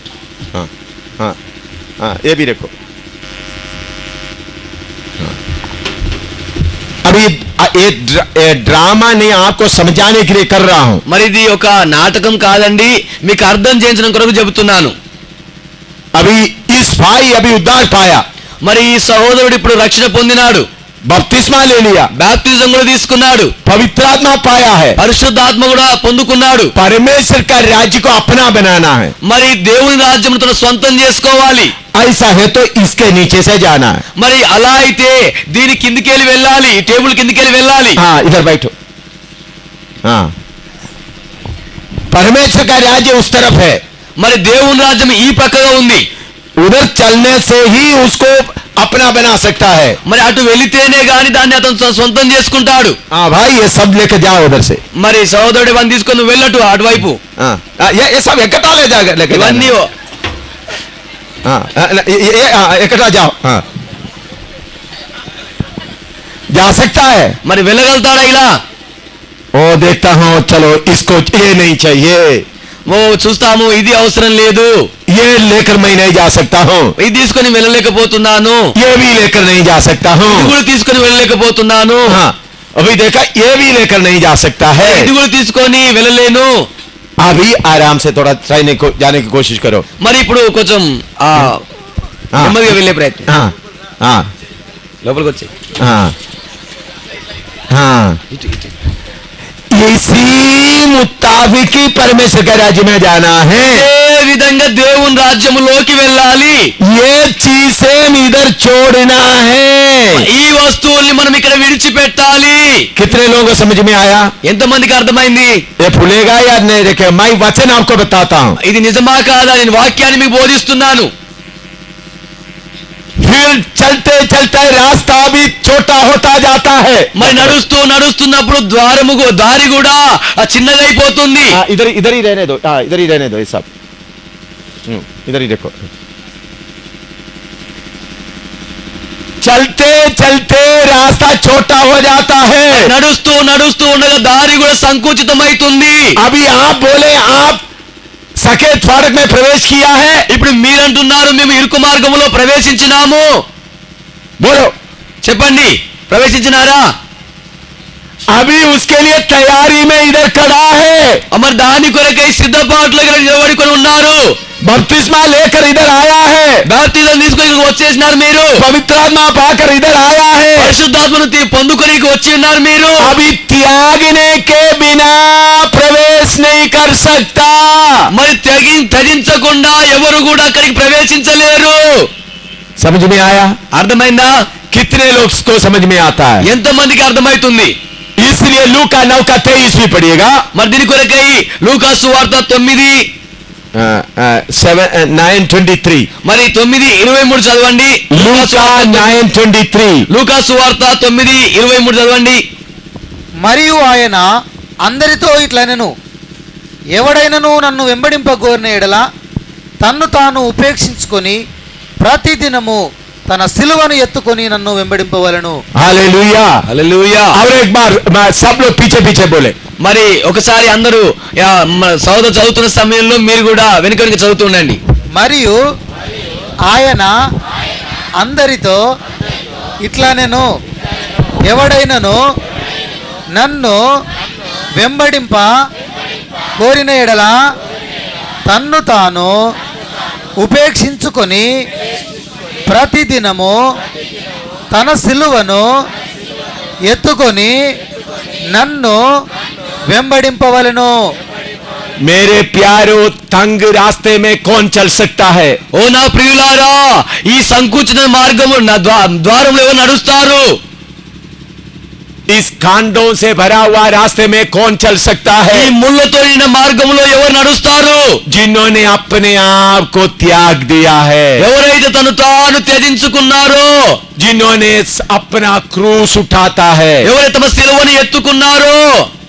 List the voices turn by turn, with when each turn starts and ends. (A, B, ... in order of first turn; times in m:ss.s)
0:00.5-0:01.4 A
0:02.0-0:02.7 A
0:07.0-0:11.0 A
0:11.1-0:15.0 B
0:16.2-0:18.2 A
0:18.6-0:20.7 B
0:21.1-0:22.1 A
0:22.2-0:23.5 B
0:23.6-0:25.0 A
0:25.0-0:26.7 B
0:26.8-0:29.1 A
0:29.2-0:31.7 B
0:31.9-0:34.0 A
0:34.2-0:38.0 B
0:38.0-0:38.7 A
0:40.0-0:40.3 A
0:42.1-0:43.8 A
0:44.2-0:46.1 B
0:46.6-0:50.0 A
0:50.0-0:53.0 B
0:53.1-0:54.8 A
0:54.9-0:57.2 B
0:57.4-0:59.7 A
0:59.3-0:59.9 B
1:01.5-1:03.6 A
1:06.5-1:07.4 A
1:07.4-1:08.6 B
1:09.5-1:12.4 A
1:12.9-1:14.9 B
1:15.1-1:16.9 A
1:17.0-1:18.7 B
1:18.8-1:20.6 A
1:20.3-1:22.2 B
1:22.1-1:25.1 A
1:24.8-1:26.7 B
1:27.2-1:29.9 A
1:30.0-1:31.6 B
1:32.4-1:33.3 B
1:33.3-1:34.3 A
1:35.0-1:35.5 B
1:35.8-1:36.2 A
1:37.7-1:38.2 A
1:38.3-1:38.7 B
1:39.7-1:43.9 A
1:43.6-1:46.7 B
1:46.8-1:50.3 A
1:50.1-1:52.9 B
1:53.0-1:54.3 A
1:54.4-1:55.6 B
1:55.8-1:58.6 A
1:58.6-2:01.1 B
2:03.2-2:07.6 A
2:07.2-2:11.6 B
2:11.5-2:13.7 A
2:14.9-2:15.8 A
2:19.4-2:22.9 A
2:22.7-2:26.2 B
2:26.2-2:27.6 A
2:28.4-2:30.3 A
2:30.3-2:33.4 B
2:34.4-2:34.7 A
2:35.2-2:36.9 B
2:38.3-2:41.2 A
2:41.3-2:44.4 B
2:44.6-2:46.7 A
2:46.7-2:48.6 B
2:48.6-2:50.8 A
2:50.6-2:53.2 B
2:53.0-2:58.1 A
2:58.1-3:02.1 B
3:02.8-3:03.6 A
3:03.7-3:04.5 B
3:04.7-3:06.5 A
3:06.4-3:07.8 B
3:08.2-3:10.4 A
3:10.5-3:13.1 B
3:13.8-3:16.1 A
3:16.2-3:19.2 B
3:18.1-3:20.1 A
3:20.1-3:22.4 B
3:23.4-3:24.2 C
3:24.8-3:25.9 C
3:27.0-3:29.0 C
3:29.8-3:31.4 C
3:32.0-3:35.6 C
3:35.8-3:36.6 A
3:36.7-3:37.4 B
3:37.3-3:39.6 A
3:39.8-3:44.8 B
3:45.2-3:45.6 C
3:46.7-3:47.1 C
3:48.2-3:48.8 C
3:49.8-3:50.5 C
3:51.5-3:52.2 C
3:53.4-3:53.8 C
3:54.8-3:55.5 C
3:56.6-3:57.3 C
3:58.5-3:59.3 C
4:00.4-4:01.5 C
4:02.7-4:03.6 C
4:04.7-4:05.6 C
4:06.9-4:07.5 C
4:08.5-4:09.0 C
4:09.9-4:10.9 C
4:12.0-4:15.6 A
4:15.7-4:20.6 B
4:22.3-4:25.7 A
4:25.5-4:28.2 B
4:28.3-4:31.5 A
4:31.4-4:34.0 B
4:34.2-4:37.1 A
4:37.0-4:39.1 B